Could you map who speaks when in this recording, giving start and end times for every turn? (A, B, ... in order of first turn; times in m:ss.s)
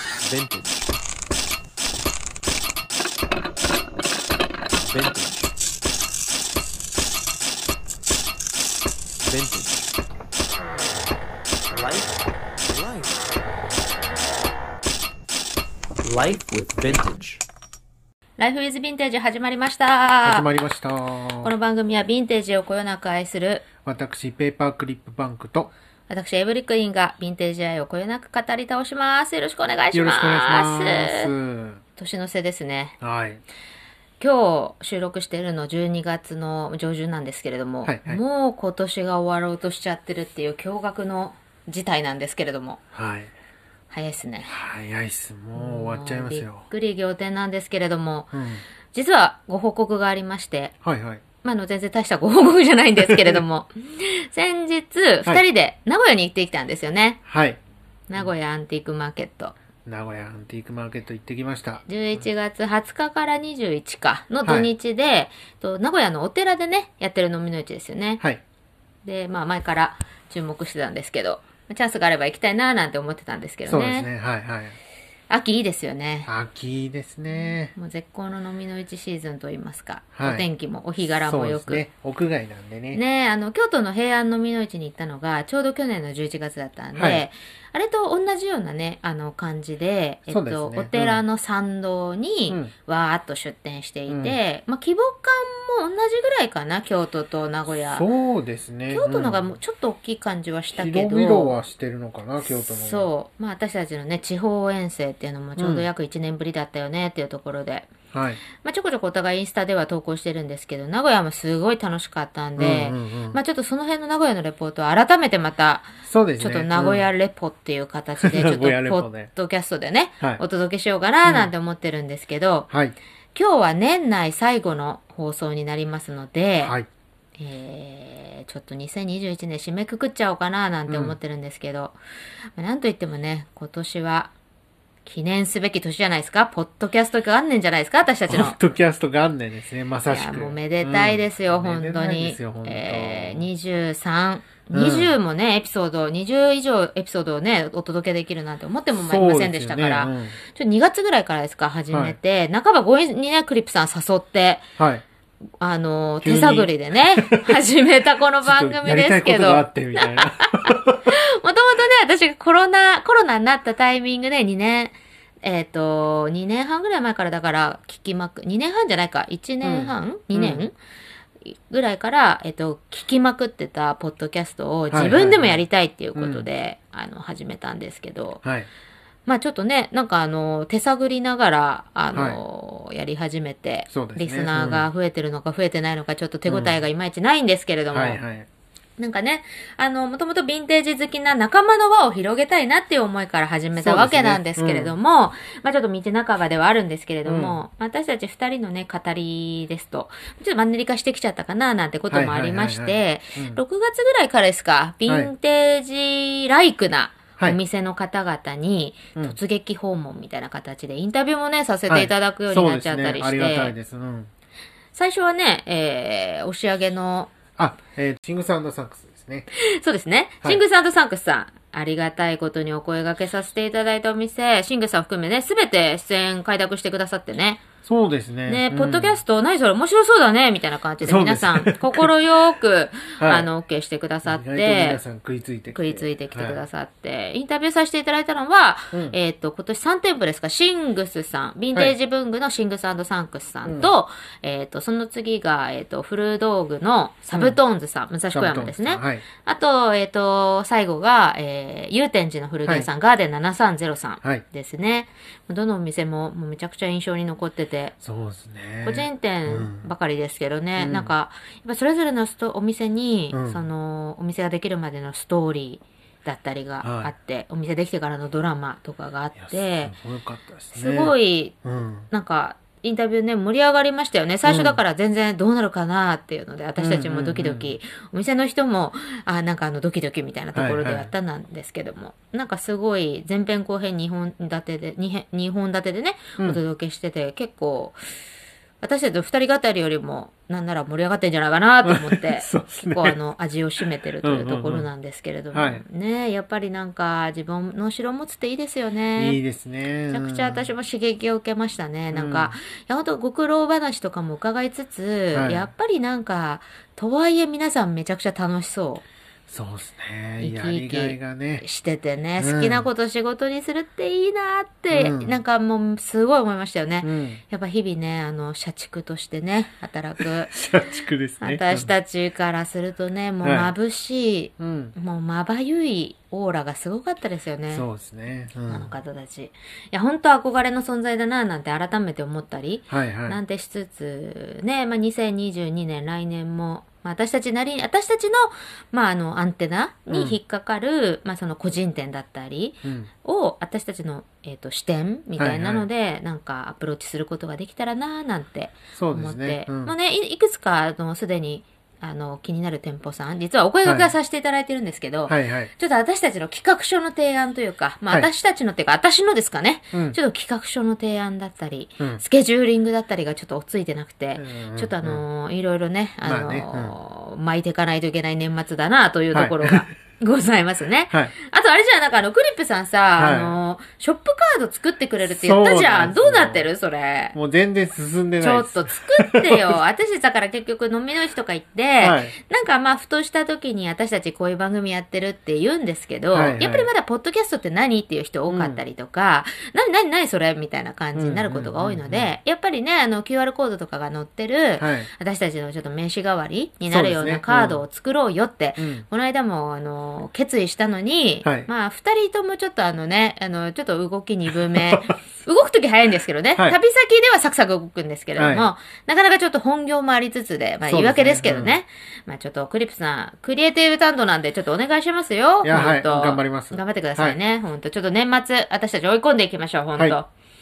0:00.2-0:00.9 A
0:04.9-0:05.5 A
0:09.2-0:10.0 A
0:11.7-0:13.3 A
0:16.0-0:17.4 A
0:18.4-0:20.5 B
0:20.2-0:21.5 C
0:21.4-0:23.6 B
0:23.8-0:25.7 C
0:26.1-0:31.3 B
0:29.9-0:31.8 C
0:32.0-0:33.0 B
0:33.0-0:33.4 C
0:34.2-0:42.8 B
0:37.8-0:38.2 C
0:42.9-0:43.3 C
0:43.9-0:44.5 B
0:44.5-0:46.6 C
0:45.6-0:48.3 B
0:48.3-0:48.6 C
0:48.9-0:50.7 B
0:50.8-0:51.2 C
0:51.4-0:57.2 B
0:53.1-0:53.4 C
0:57.3-0:57.6 C
0:58.1-0:59.6 B
0:59.8-1:01.8 C
1:01.9-1:08.2 B
1:04.4-1:04.7 C
1:09.0-1:14.1 B
1:13.7-1:14.8 C
1:15.3-1:16.3 B
1:16.2-1:17.7 C
1:17.8-1:21.8 B
1:20.2-1:20.5 C
1:21.0-1:23.0 C
1:22.9-1:38.1 B
1:26.9-1:27.2 C
1:30.3-1:31.2 C
1:34.1-1:34.4 C
1:37.9-1:39.5 C
1:38.9-1:41.6 B
1:40.8-1:43.1 C
1:42.5-1:47.9 B
1:45.6-1:45.8 C
1:48.1-1:48.4 C
1:48.6-2:02.7 B
1:52.6-1:53.4 C
1:56.0-1:57.1 C
1:58.2-1:59.3 C
2:01.2-2:01.5 C
2:02.7-2:03.0 C
2:03.3-2:06.7 B
2:06.6-2:06.9 C
2:07.4-2:12.0 B
2:10.9-2:11.2 C
2:12.6-2:14.3 B
2:15.0-2:18.6 B
2:18.3-2:23.4 C
2:20.1-2:34.7 B
2:24.7-2:25.1 C
2:28.9-2:30.4 C
2:31.9-2:32.2 C
2:34.8-2:35.0 C
2:35.6-2:50.7 B
2:36.2-2:37.5 C
2:38.4-2:41.1 C
2:49.6-2:50.6 C
2:51.4-2:58.4 B
2:54.9-2:55.6 C
2:56.1-2:56.4 C
2:58.4-2:58.7 C
2:59.2-3:08.2 B
3:02.1-3:02.4 C
3:03.9-3:04.9 C
3:06.5-3:06.8 C
3:07.9-3:08.5 C
3:09.0-3:33.8 B
3:13.8-3:14.9 C
3:17.2-3:17.6 C
3:22.1-3:23.6 C
3:31.9-3:34.3 C
3:34.9-3:37.3 B
3:37.6-3:39.5 C
3:39.5-3:47.6 B
3:47.8-3:49.2 C
3:48.5-3:55.0 B
3:51.0-3:52.1 C
3:53.2-3:53.5 C
3:54.2-3:56.6 C
3:55.7-4:17.9 B
4:03.6-4:03.9 C
4:07.3-4:07.6 C
4:08.3-4:09.2 C
4:18.0-4:19.9 C
4:18.8-4:29.9 B
4:20.8-4:21.1 C
4:23.3-4:23.6 C
4:26.8-4:27.1 C
4:29.4-4:32.1 C
4:30.7-4:31.6 B
4:32.1-4:48.0 B
4:34.4-4:34.8 C
4:36.8-4:37.8 C
4:40.5-4:41.1 C
4:48.8-4:59.4 B
4:51.8-4:53.2 C
4:54.2-4:54.9 C
4:55.5-4:55.8 C
4:59.2-5:00.7 C
5:00.1-5:09.0 B
5:02.1-5:02.6 C
5:05.3-5:05.7 C
5:09.5-5:11.6 C
5:10.4-5:20.5 B
5:12.4-5:12.9 C
5:14.9-5:15.4 C
5:17.0-5:17.4 C
5:20.2-5:21.9 C
5:21.4-5:27.8 B
5:23.4-5:23.7 C
5:24.6-5:24.9 C
5:27.7-5:28.9 C
5:28.7-6:17.3 B
5:32.9-5:33.4 C
5:40.1-5:40.4 C
5:42.8-5:43.1 C
5:45.4-5:45.9 C
5:48.9-5:49.9 C
5:53.8-5:54.1 C
5:55.3-5:55.7 C
6:04.4-6:05.2 C
6:06.2-6:06.9 C
6:09.3-6:09.8 C
6:13.2-6:13.5 C
6:15.3-6:16.7 C
6:17.3-6:19.8 C
6:18.4-7:00.3 B
6:22.0-6:22.4 C
6:26.3-6:26.9 C
6:28.5-6:28.8 C
6:31.1-6:32.4 C
6:34.8-6:35.1 C
6:36.9-6:37.8 C
6:38.8-6:39.1 C
6:44.7-6:45.1 C
6:48.4-6:48.7 C
6:50.9-6:51.8 C
6:55.6-6:57.4 C